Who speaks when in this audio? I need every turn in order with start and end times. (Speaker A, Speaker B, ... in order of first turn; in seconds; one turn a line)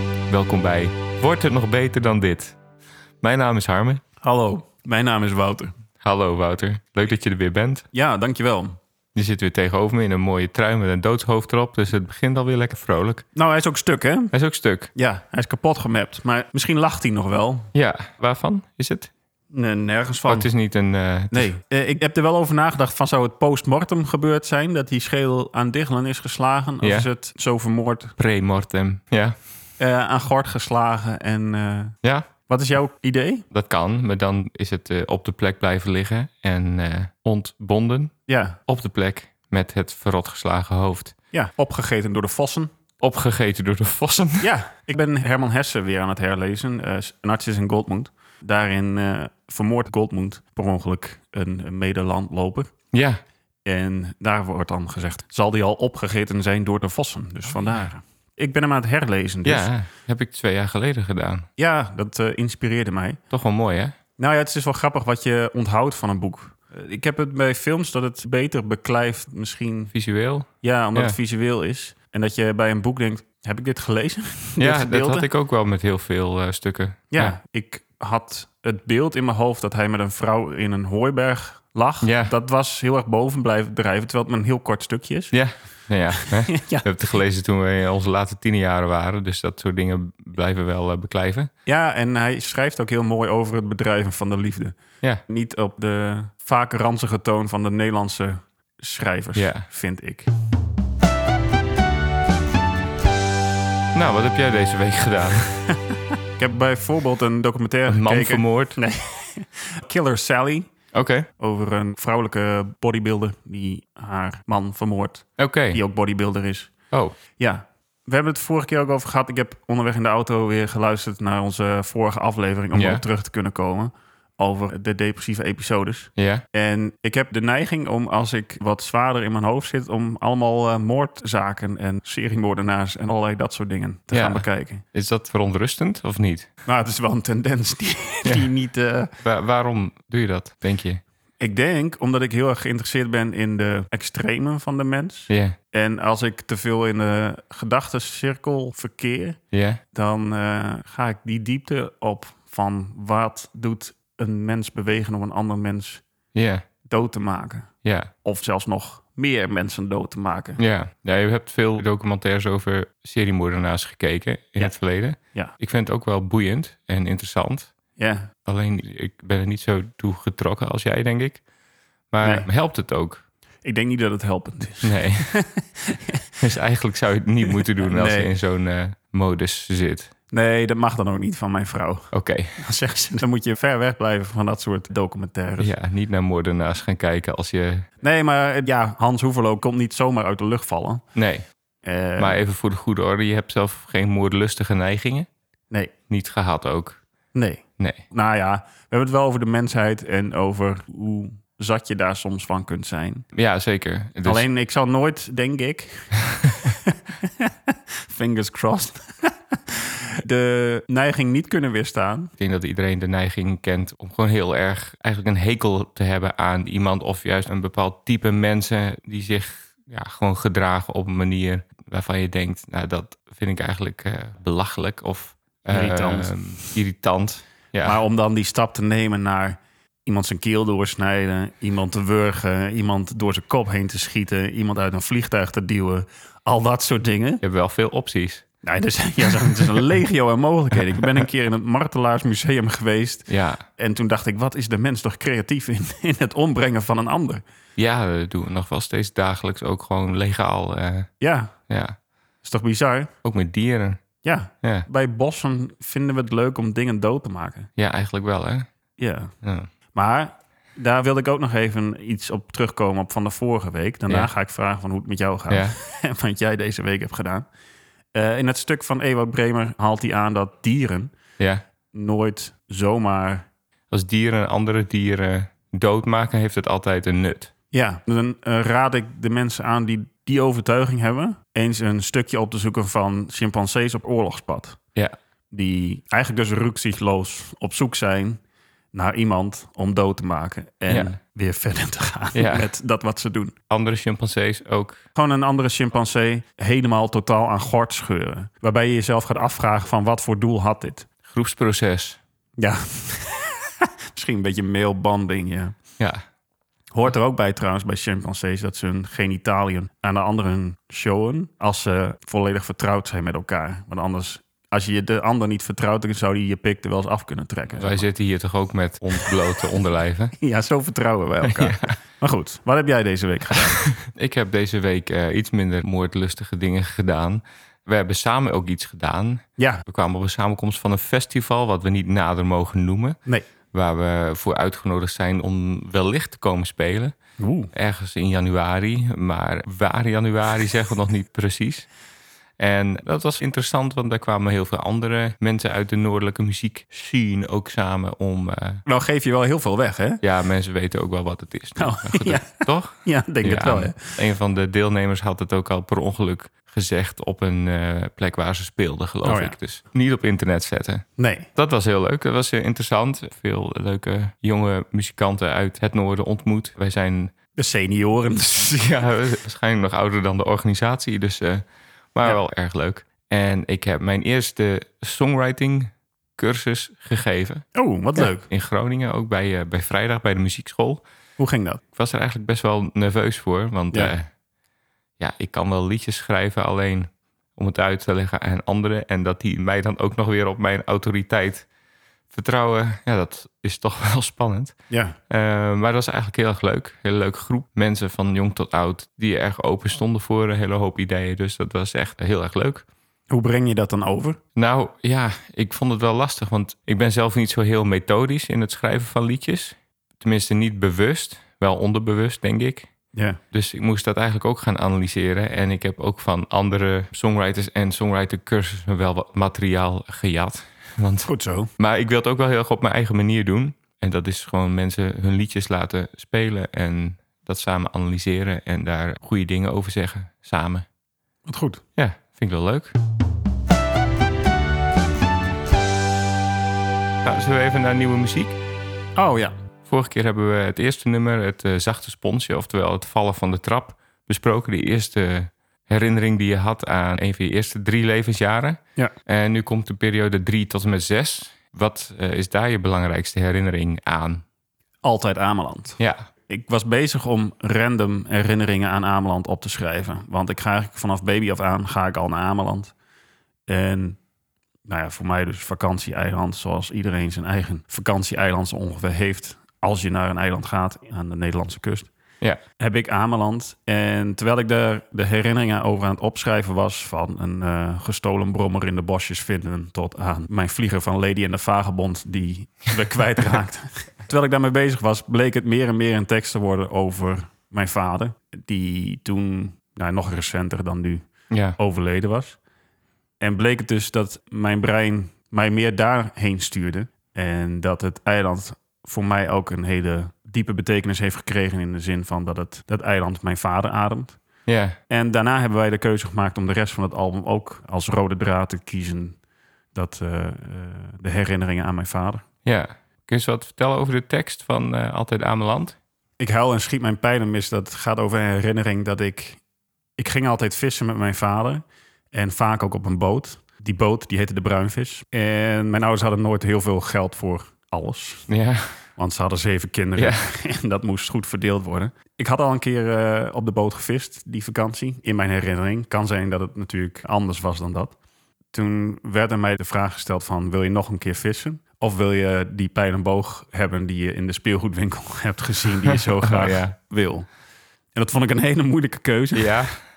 Speaker A: 0.3-2.5
Speaker A: 3.2-4.0
Speaker B: 4.2-5.7
Speaker A: 6.0-7.8
Speaker B: 7.9-8.8
Speaker A: 9.2-13.2
Speaker B: 13.3-14.3
Speaker A: 14.3-14.9
Speaker B: 14.9-17.7
Speaker A: 17.7-19.1
Speaker B: 19.5-20.5
Speaker A: 20.3-21.5
Speaker B: 21.3-28.1
Speaker A: 26.8-27.1
Speaker A: 28.2-29.4
Speaker B: 29.8-31.9
Speaker A: 32.0-32.3
Speaker B: 32.5-33.5
Speaker A: 33.5-38.1
Speaker B: 38.3-38.6
Speaker A: 38.7-41.1
Speaker B: 41.3-42.7
Speaker A: 43.0-44.5
Speaker B: 44.4-52.7
Speaker A: 52.9-53.2
Speaker B: 53.6-59.7
Speaker A: 59.5-61.5
Speaker B: 61.6-63.2
Speaker A: 63.3-64.0
Speaker B: 64.2-69.9
Speaker A: 69.9-71.2
Speaker B: 70.6-75.3
Speaker A: 74.6-77.4
Speaker B: 77.1-85.4
Speaker A: 82.0-82.3
Speaker A: 85.3-91.5
Speaker B: 86.2-86.8
Speaker B: 91.7-100.3
Speaker A: 99.3-99.7
Speaker A: 104.0-105.6
Speaker B: 106.4-110.7
Speaker A: 107.9-108.8
Speaker A: 110.9-111.3
Speaker B: 111.4-116.7
Speaker A: 115.4-115.8
Speaker B: 117.4-134.8
Speaker A: 122.7-123.0
Speaker A: 126.2-126.4
Speaker A: 134.1-136.5
Speaker B: 136.7-139.1
Speaker A: 139.2-141.0
Speaker B: 141.4-149.4
Speaker A: 145.3-145.6
Speaker A: 149.5-149.8
Speaker B: 149.9-156.0
Speaker A: 156.3-156.7
Speaker B: 156.9-157.7
Speaker A: 157.8-158.1
Speaker B: 158.2-160.6
Speaker A: 160.6-167.7
Speaker B: 168.0-168.3
Speaker A: 168.5-171.4
Speaker A: 172.1-173.2
Speaker B: 172.2-172.5
Speaker B: 173.6-176.2
Speaker A: 174.8-175.4
Speaker A: 176.4-180.1
Speaker B: 177.8-178.3
Speaker B: 180.3-185.7
Speaker A: 182.1-182.6
Speaker A: 185.6-187.9
Speaker B: 188.0-191.0
Speaker A: 191.2-191.4
Speaker B: 191.8-192.4
Speaker A: 192.2-195.3
Speaker A: 196.1-197.0
Speaker B: 197.3-203.2
Speaker A: 203.3-204.4
Speaker B: 204.2-212.3
Speaker A: 212.4-228.0
Speaker B: 225.7-226.8
Speaker B: 227.8-237.4
Speaker A: 237.4-238.4
Speaker B: 238.6-247.4
Speaker A: 243.3-243.6
Speaker A: 247.8-251.1
Speaker B: 251.2-251.5
Speaker A: 251.7-252.0
Speaker B: 252.4-253.1
Speaker A: 253.2-254.0
Speaker B: 254.2-257.7
Speaker A: 257.8-258.6
Speaker B: 259.0-259.3
Speaker A: 259.4-259.7
Speaker B: 259.9-267.5
Speaker A: 265.5-265.8
Speaker B: 268.1-271.1
Speaker B: 271.9-273.4
Speaker A: 273.9-277.5
Speaker B: 277.7-284.8
Speaker B: 285.5-288.4
Speaker B: 288.9-293.5
Speaker A: 292.3-292.7
Speaker A: 293.7-295.0
Speaker B: 295.1-301.1
Speaker A: 301.3-302.2
Speaker B: 302.6-305.8
Speaker B: 306.9-318.1
Speaker A: 317.7-320.3
Speaker B: 320.4-323.8
Speaker A: 321.4-321.9
Speaker A: 323.9-333.2
Speaker B: 329.6-329.8
Speaker A: 333.7-337.1
Speaker B: 337.4-337.7
Speaker A: 337.7-341.9
Speaker A: 342.6-348.8
Speaker B: 348.9-350.2
Speaker A: 350.2-361.0
Speaker B: 351.8-354.2
Speaker B: 359.2-359.6
Speaker B: 361.2-361.5
Speaker A: 361.6-367.3
Speaker B: 367.6-369.1
Speaker A: 368.7-371.6
Speaker A: 372.1-377.6
Speaker B: 377.8-378.4
Speaker A: 378.2-381.0
Speaker B: 381.4-381.8
Speaker A: 381.9-384.2
Speaker A: 385.2-391.7
Speaker A: 392.3-394.7
Speaker B: 394.9-395.2
Speaker A: 395.3-402.8
Speaker B: 403.3-404.4
Speaker A: 404.6-412.9
Speaker B: 413.1-413.4
Speaker A: 413.5-430.8
Speaker B: 421.2-421.7
Speaker B: 431.4-431.8
Speaker A: 431.9-432.9
Speaker A: 437.2-438.6
Speaker B: 439.1-439.6
Speaker A: 439.9-454.4
Speaker B: 455.0-462.9
Speaker A: 456.0-456.2
Speaker B: 463.7-464.2
Speaker B: 464.9-472.1
Speaker B: 472.8-491.2
Speaker A: 491.5-491.8
Speaker B: 491.8-492.6
Speaker B: 493.4-504.4
Speaker A: 504.7-505.0
Speaker B: 505.1-509.4
Speaker B: 509.9-512.4
Speaker A: 512.6-516.0
Speaker B: 516.4-519.6
Speaker B: 520.2-528.5
Speaker A: 528.5-528.9
Speaker B: 529.2-538.1
Speaker A: 530.2-530.4
Speaker B: 538.7-547.5
Speaker A: 546.4-546.9
Speaker B: 548.1-549.8
Speaker A: 549.5-550.0